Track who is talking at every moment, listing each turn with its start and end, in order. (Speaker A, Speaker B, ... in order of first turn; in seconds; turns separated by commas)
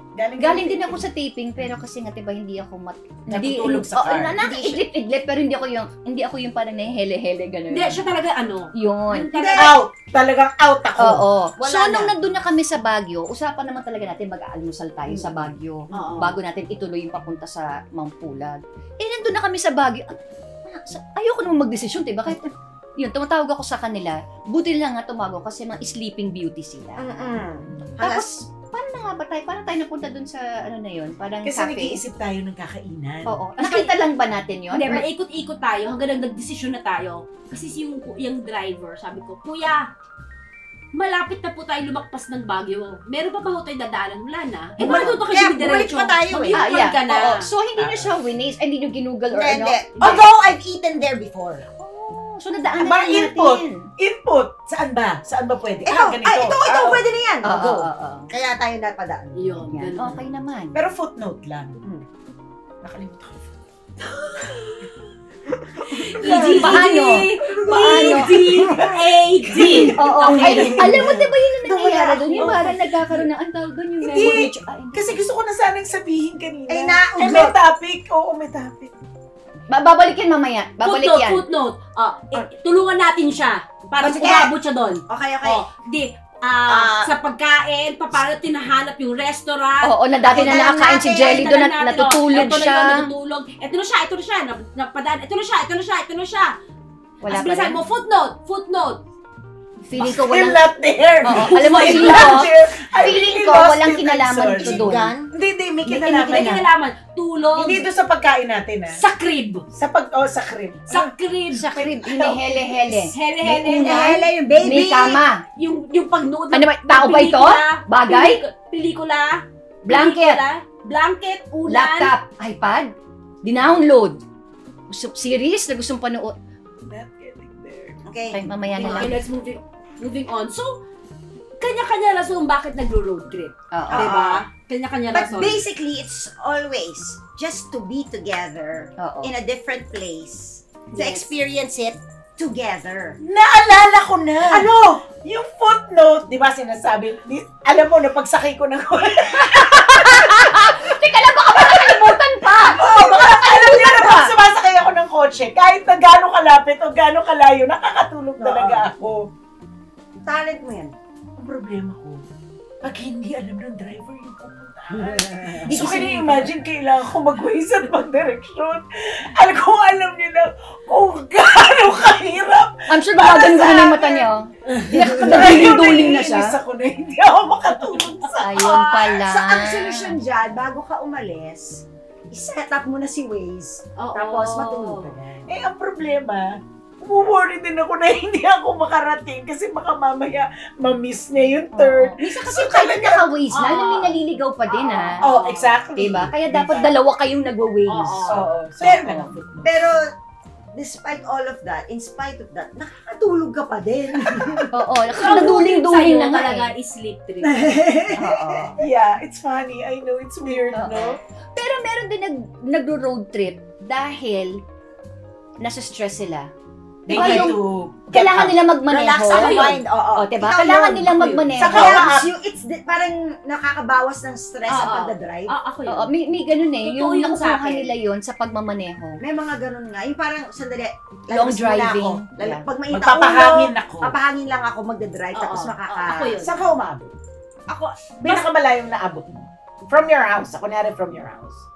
Speaker A: 0.2-1.1, Speaker B: 0.4-8.1, Speaker A: 3.3-4.4, Speaker C: 4.4-4.8, Speaker D: 7.7-9.8, Speaker B: 8.7-9.3, Speaker C: 9.3-9.8, Speaker A: 9.6-11.3, Speaker B: 11.0-27.4, Speaker C: 11.6-12.2, Speaker C: 15.1-15.3, Speaker D: 15.9-16.4, Speaker C: 27.0-28.3, Speaker B: 28.0-32.0, Speaker A: 31.4-33.4, Speaker B: 33.3-35.0, Speaker D: 33.6-33.9, Speaker D: 34.7-39.9, Speaker D: 40.9-47.5, Speaker C: 44.8-46.7, Speaker B: 44.8-45.1, Speaker B: 46.5-50.2, Speaker A: 47.8-48.1, Speaker C: 49.3-51.6, Speaker B: 51.8-53.9, Speaker A: 52.8-57.0, Speaker C: 55.8-59.8, Speaker B: 57.4-58.3, Speaker D: 59.4-60.3, Speaker B: 59.7-60.8, Speaker A: 60.7-61.8, Speaker A: 62.8-63.5, Speaker A: 65.8-66.6, Speaker C: 65.9-69.0, Speaker D: 65.9-71.0, Speaker B: 66.6-68.3, Speaker A: 68.6-71.1, Speaker C: 69.6-72.8, Speaker B: 69.9-75.2, Speaker D: 72.4-72.7, Speaker A: 74.0-78.9, Speaker C: 76.7-77.6, Speaker B: 79.7-81.4, Speaker D: 80.8-96.5, Speaker C: 84.0-84.6, Speaker C: 85.1-85.6, Speaker C: 86.7-87.1, Speaker B: 89.8-93.1, Speaker C: 90.2-91.5, Speaker B: 97.2-97.8, Speaker D: 97.3-99.0, Speaker B: 99.8-100.7, Speaker A: 100.0-106.7, Speaker B: 101.2-105.1, Speaker D: 101.3-102.5, Speaker C: 104.5-105.3, Speaker D: 105.9-107.9, Speaker C: 106.3-106.6, Speaker A: 107.5-109.0, Speaker D: 108.9-109.7, Speaker A: 109.7-113.1, Speaker D: 110.9-111.8, Speaker B: 111.5-115.4, Speaker D: 113.1-114.2, Speaker C: 113.4-115.2, Speaker D: 115.6-122.2, Speaker B: 116.5-118.4, Speaker B: 119.8-120.4, Speaker B: 121.7-122.9, Speaker B: 123.4-124.2, Speaker B: 124.9-126.3, Speaker A: 126.8-128.0, Speaker C: 128.0-129.1, Speaker B: 128.3-129.2, Speaker D: 128.7-130.8, Speaker D: 131.6-135.6, Speaker B: 133.7-134.1, Speaker C: 133.9-134.5, Speaker C: 135.1-143.2, Speaker B: 139.0-139.3, Speaker D: 140.9-141.3, Speaker A: 143.2-151.0, Speaker C: 144.5-144.8, Speaker B: 149.7-154.3, Speaker A: 151.6-159.3, Speaker C: 158.4-158.9, Speaker C: 160.2-161.0, Speaker A: 161.4-162.2, Speaker A: 162.8-179.2, Speaker C: 165.0-166.1, Speaker B: 165.7-166.5, Speaker B: 172.9-176.6, Speaker B: 178.4-180.2, Speaker C: 179.0-185.5, Speaker D: 184.0-185.2, Speaker A: 185.5-193.3, Speaker B: 191.7-195.2, Speaker D: 193.5-194.2, Speaker D: 194.7-195.8, Speaker A: 195.2-196.9, Speaker B: 196.0-199.3, Speaker D: 197.9-198.5, Speaker A: 198.3-199.8, Speaker C: 198.8-200.0, Speaker C: 200.8-204.9, Speaker B: 204.7-206.7, Speaker D: 205.1-207.7, Speaker C: 207.4-208.8, Speaker B: 208.1-208.8, Speaker A: 208.8-211.2, Speaker B: 210.7-214.6, Speaker B: 215.6-216.5, Speaker A: 217.1-218.6, Speaker C: 217.1-217.6, Speaker B: 217.1-217.6, Speaker B: 218.1-222.1, Speaker C: 218.9-225.5, Speaker D: 219.3-219.8, Speaker A: 221.6-222.3, Speaker D: 224.7-226.1, Speaker B: 225.9-229.2, Speaker D: 226.8-227.9, Speaker C: 229.2-236.4, Speaker B: 231.3-232.7, Speaker A: 232.9-234.2, Speaker D: 235.3-236.8, Speaker A: 236.4-237.2, Speaker D: 237.7-238.5, Speaker A: 238.2-241.6